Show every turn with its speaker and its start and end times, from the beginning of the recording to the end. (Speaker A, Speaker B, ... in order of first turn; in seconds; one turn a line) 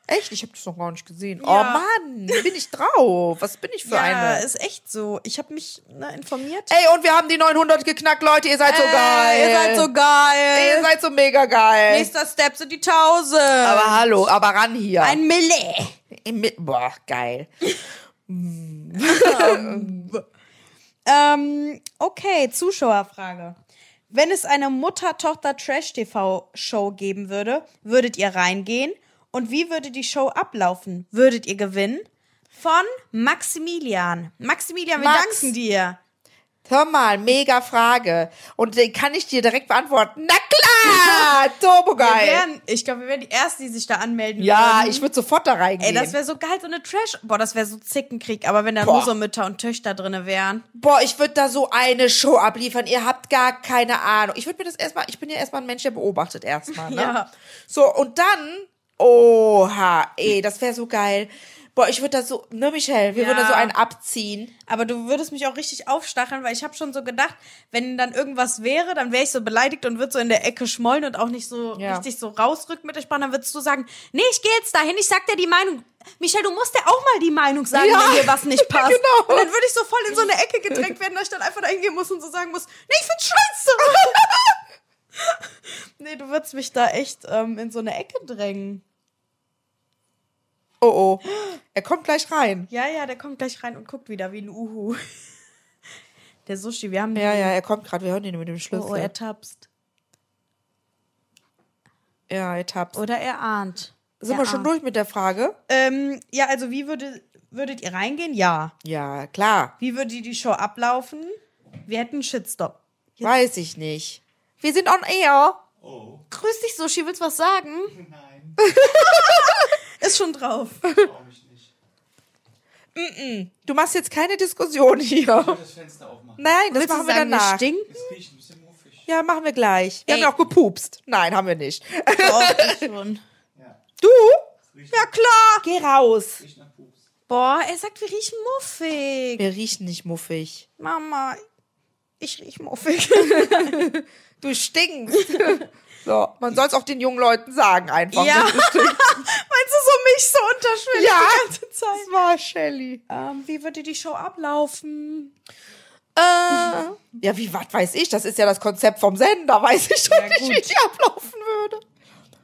Speaker A: 0.1-4.5
Speaker B: 1.4-2.5
Speaker B: 3.8-6.8
Speaker A: 6.7-9.9
Speaker B: 8.6-10.9
Speaker A: 10.5-12.1
Speaker B: 11.9-14.3
Speaker A: 13.6-15.2
Speaker B: 15.0-16.0
Speaker A: 16.1-17.5
Speaker A: 18.3-20.1
Speaker B: 19.0-20.2
Speaker B: 21.1-23.6
Speaker B: 24.1-36.0
Speaker A: 35.0-35.5
Speaker A: 36.7-42.5
Speaker B: 40.8-41.4
Speaker B: 42.0-45.1
Speaker A: 44.4-46.2
Speaker B: 45.8-50.7
Speaker A: 48.8-49.1
Speaker A: 50.8-57.2
Speaker B: 56.7-57.3
Speaker A: 57.7-64.5
Speaker B: 63.1-63.7
Speaker B: 64.7-84.5
Speaker A: 71.8-72.0
Speaker A: 77.7-79.5
Speaker A: 83.9-84.2
Speaker B: 85.2-88.8
Speaker A: 90.8-92.7
Speaker B: 92.7-95.0
Speaker B: 96.5-97.5
Speaker A: 97.2-99.1
Speaker B: 98.7-99.7
Speaker A: 102.3-103.0
Speaker B: 102.9-104.7
Speaker A: 104.2-105.6
Speaker B: 105.7-108.7
Speaker A: 108.8-109.7
Speaker B: 109.8-112.8
Speaker A: 113.2-115.6
Speaker C: 115.8-116.2
Speaker B: 116.3-117.9
Speaker C: 117.9-118.6
Speaker A: 118.6-119.7
Speaker B: 118.8-120.8
Speaker C: 120.9-121.7
Speaker A: 123.0-125.6
Speaker C: 125.3-126.4
Speaker A: 126.4-127.7
Speaker B: 126.7-128.1
Speaker C: 127.9-129.1
Speaker A: 129.1-132.9
Speaker B: 130.1-130.3
Speaker B: 132.2-133.2
Speaker A: 134.0-134.4
Speaker C: 134.7-135.1
Speaker B: 134.9-135.7
Speaker A: 135.6-136.4
Speaker C: 136.4-137.0
Speaker B: 137.3-139.5
Speaker A: 139.4-140.7
Speaker B: 140.8-141.4
Speaker B: 142.2-143.9
Speaker A: 143.2-149.2
Speaker B: 145.2-145.6
Speaker B: 148.1-152.1
Speaker A: 150.9-153.0
Speaker B: 153.1-155.3
Speaker A: 156.2-161.8
Speaker B: 160.1-160.7